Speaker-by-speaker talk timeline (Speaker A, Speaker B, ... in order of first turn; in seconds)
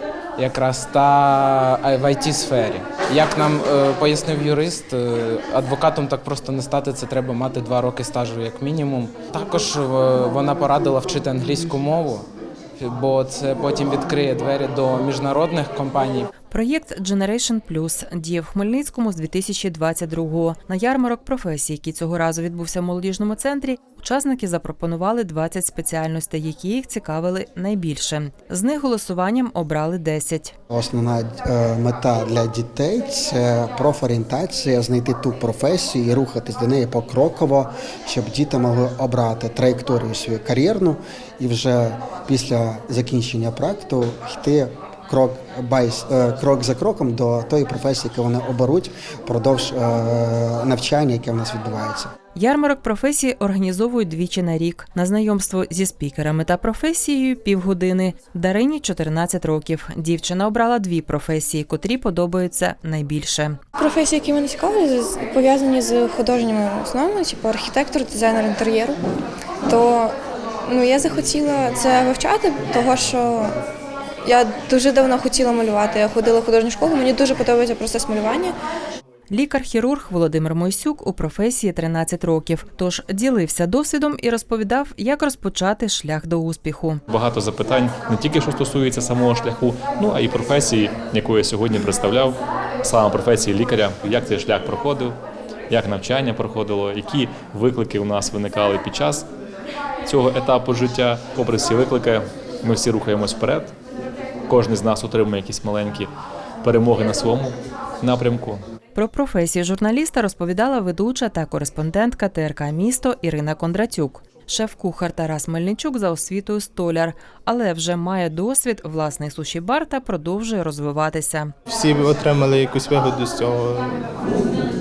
Speaker A: 0.4-12.3, 12.8-16.3
Speaker B: 16.5-30.5, 52.3-63.6, 79.3-87.0, 108.9-121.5
Speaker C: 30.7-52.1
Speaker D: 63.8-69.0, 69.7-73.5, 74.2-78.5
Speaker E: 87.1-95.2, 95.7-99.3, 100.0-103.7, 104.5-106.1, 106.6-108.6
Speaker F: 121.7-123.9